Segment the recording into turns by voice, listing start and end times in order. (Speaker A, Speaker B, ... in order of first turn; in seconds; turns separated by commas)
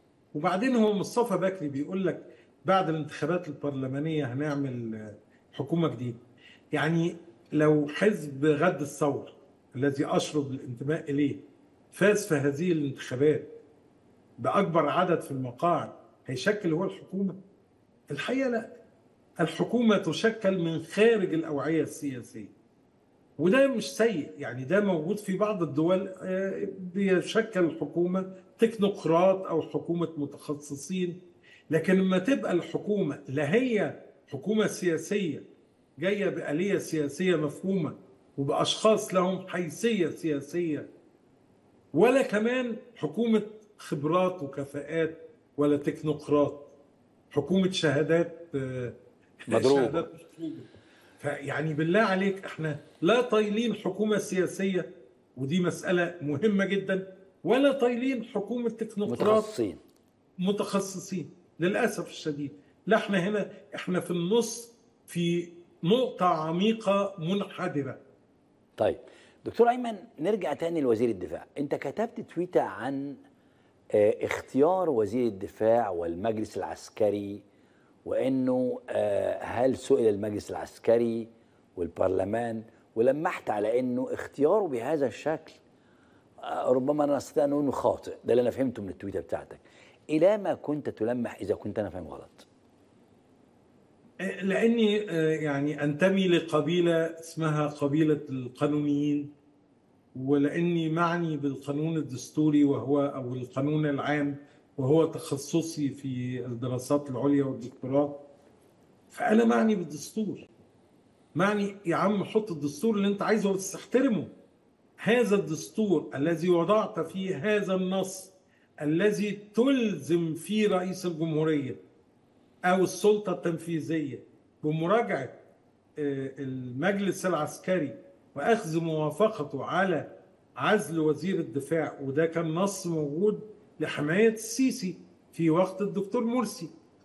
Speaker A: 0.3-6.2, Speaker A: 6.7-11.4, Speaker A: 11.9-13.5, Speaker A: 14.4-17.4, Speaker A: 18.1-18.7, Speaker A: 19.4-22.5, Speaker A: 23.4-31.2, Speaker A: 31.7-35.4, Speaker A: 36.0-40.9, Speaker A: 41.9-46.7, Speaker A: 47.3-49.0, Speaker A: 49.5-50.7, Speaker B: 49.5-50.1, Speaker A: 51.2-59.5, Speaker B: 59.0-59.8, Speaker A: 60.4-68.0, Speaker B: 68.8-73.2, Speaker B: 73.9-77.4, Speaker B: 78.0-85.6, Speaker B: 86.4-92.5, Speaker A: 94.2-99.3, Speaker A: 100.1-108.2, Speaker A: 109.1-110.5, Speaker A: 111.3-114.3, Speaker A: 115.0-121.8, Speaker A: 122.7-125.4, Speaker A: 126.0-136.7